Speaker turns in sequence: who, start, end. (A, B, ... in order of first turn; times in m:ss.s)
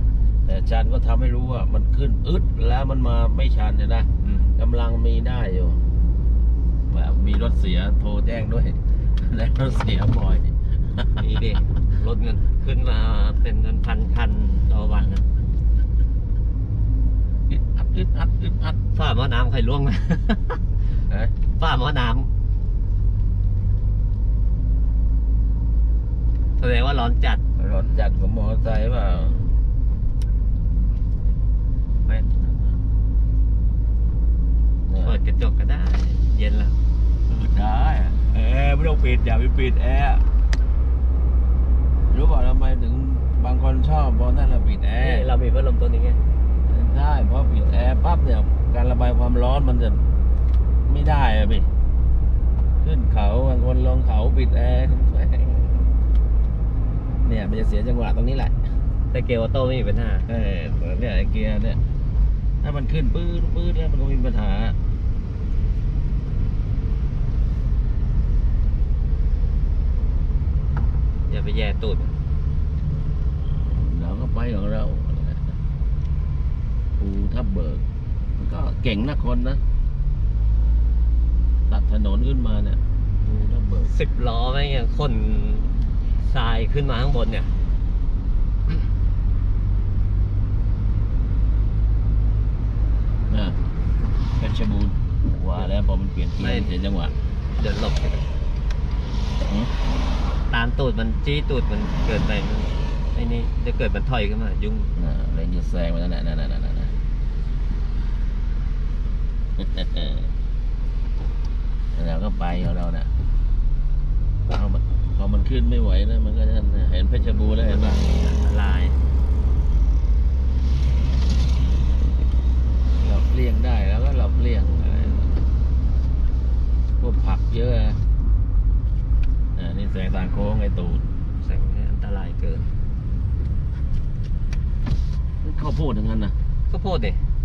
0:00.4-0:05.9 A
0:04.2-0:04.5 B
0:06.9-0:11.6 A
0:11.2-0:15.3 B
0:17.5-0:18.8 A
0:18.9-0:20.6 B
0:21.1-0:21.4 A
0:21.5-0:22.3 B
0:26.6-0:27.4 B
0:27.6-0:29.5 A
0:32.0-0:32.8 A
0:34.9-0:35.2 A
0:35.0-0:36.8 B
0:37.3-0:40.2 A
0:42.1-0:45.3 A
0:45.0-0:46.2 B
0:46.7-0:50.1 A
0:50.9-0:51.7 A
0:52.8-0:55.8 A
0:57.2-0:58.6 A
0:59.1-1:00.3 B
1:00.3-1:01.8 A
1:02.6-1:04.8 A
1:11.3-1:12.2 B
1:13.4-1:15.6 A
1:17.0-1:17.8 A
1:18.4-1:19.6 A
1:21.7-1:24.0 A
1:23.9-1:27.5 B
1:33.3-1:33.6 A
1:34.4-1:37.2 A
1:36.4-1:36.7 B
1:37.6-1:38.3 B
1:39.4-1:39.7 A
1:40.5-1:45.0 B
1:45.0-1:47.0 A
1:49.6-1:50.3 A
1:51.9-1:53.1 A
1:54.5-1:58.1 A
1:57.9-1:59.0 B
2:03.0-2:05.3 A
2:07.0-2:08.0 A
2:09.6-2:11.0 A
2:11.4-2:12.7 B
2:15.4-2:16.4 A
2:16.7-2:17.2 B